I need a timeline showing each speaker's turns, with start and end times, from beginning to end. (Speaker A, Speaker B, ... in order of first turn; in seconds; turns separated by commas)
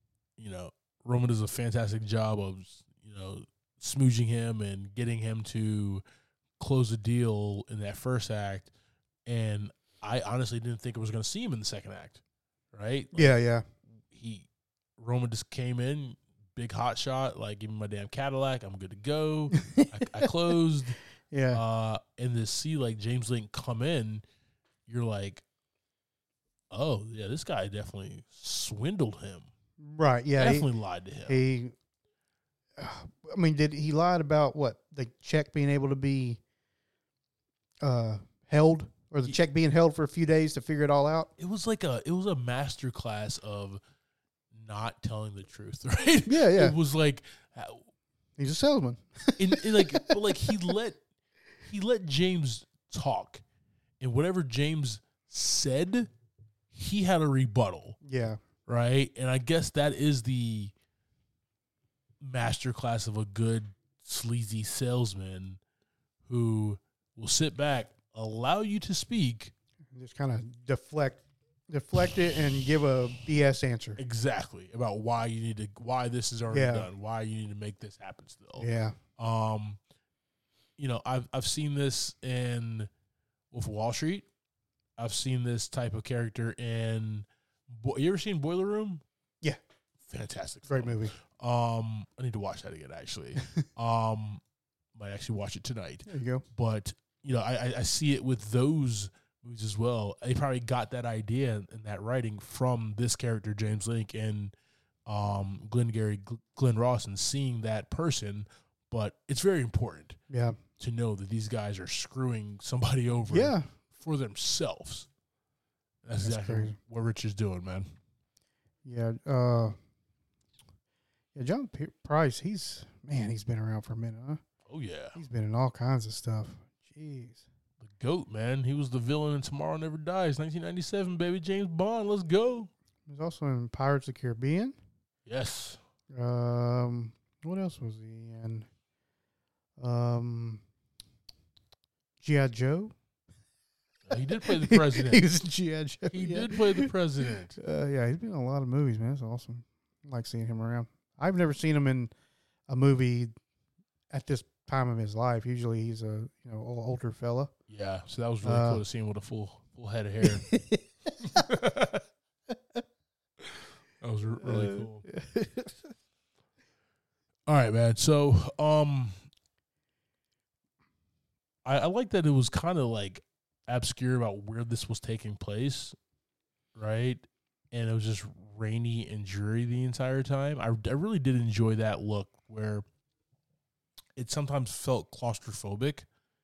Speaker A: 0.4-6.0, Speaker A: 6.6-8.7, Speaker A: 9.2-12.2, Speaker A: 12.7-13.3, Speaker B: 13.1-13.7, Speaker A: 14.1-21.0, Speaker B: 19.5-20.3, Speaker B: 21.3-21.6, Speaker A: 21.5-24.2, Speaker A: 24.9-25.4, Speaker A: 26.7-29.5, Speaker B: 29.8-30.7, Speaker A: 30.4-31.4, Speaker B: 31.3-31.7, Speaker B: 32.8-36.4, Speaker B: 37.8-41.3, Speaker A: 41.4-43.8, Speaker A: 44.5-47.8, Speaker B: 46.2-46.7, Speaker B: 48.4-50.5, Speaker A: 49.4-51.0, Speaker A: 51.6-53.4, Speaker A: 54.0-56.1, Speaker A: 56.7-58.0, Speaker B: 58.0-58.4, Speaker A: 58.7-60.7, Speaker A: 62.2-65.6, Speaker A: 66.2-69.5, Speaker B: 69.9-74.0, Speaker A: 74.0-78.7, Speaker B: 76.5-76.9, Speaker B: 78.6-79.0, Speaker A: 79.2-79.8, Speaker A: 80.8-82.9, Speaker A: 83.5-84.3, Speaker A: 85.0-89.0, Speaker A: 90.0-94.4, Speaker B: 90.7-91.2, Speaker B: 93.3-93.6, Speaker A: 94.9-104.5, Speaker B: 96.0-96.4, Speaker A: 105.0-110.2, Speaker B: 110.3-110.6, Speaker A: 110.8-115.1, Speaker B: 113.3-113.7, Speaker A: 116.0-117.8, Speaker B: 116.2-116.8, Speaker B: 118.8-119.7, Speaker B: 121.3-124.4, Speaker A: 124.7-125.2, Speaker B: 125.1-127.4, Speaker A: 127.8-132.7, Speaker B: 133.1-134.8, Speaker A: 135.2-135.8, Speaker B: 136.1-138.7, Speaker B: 139.8-140.6, Speaker B: 142.2-142.9, Speaker A: 144.0-145.2, Speaker B: 144.4-146.9, Speaker A: 146.1-147.6, Speaker B: 147.6-152.1, Speaker B: 152.7-153.3, Speaker B: 154.1-157.5, Speaker A: 157.7-160.5, Speaker B: 158.4-158.8, Speaker B: 160.2-161.5, Speaker A: 161.2-162.0, Speaker A: 164.0-165.0, Speaker B: 164.4-165.9, Speaker A: 167.5-169.2, Speaker A: 171.6-175.9, Speaker A: 176.8-182.8, Speaker A: 184.2-186.1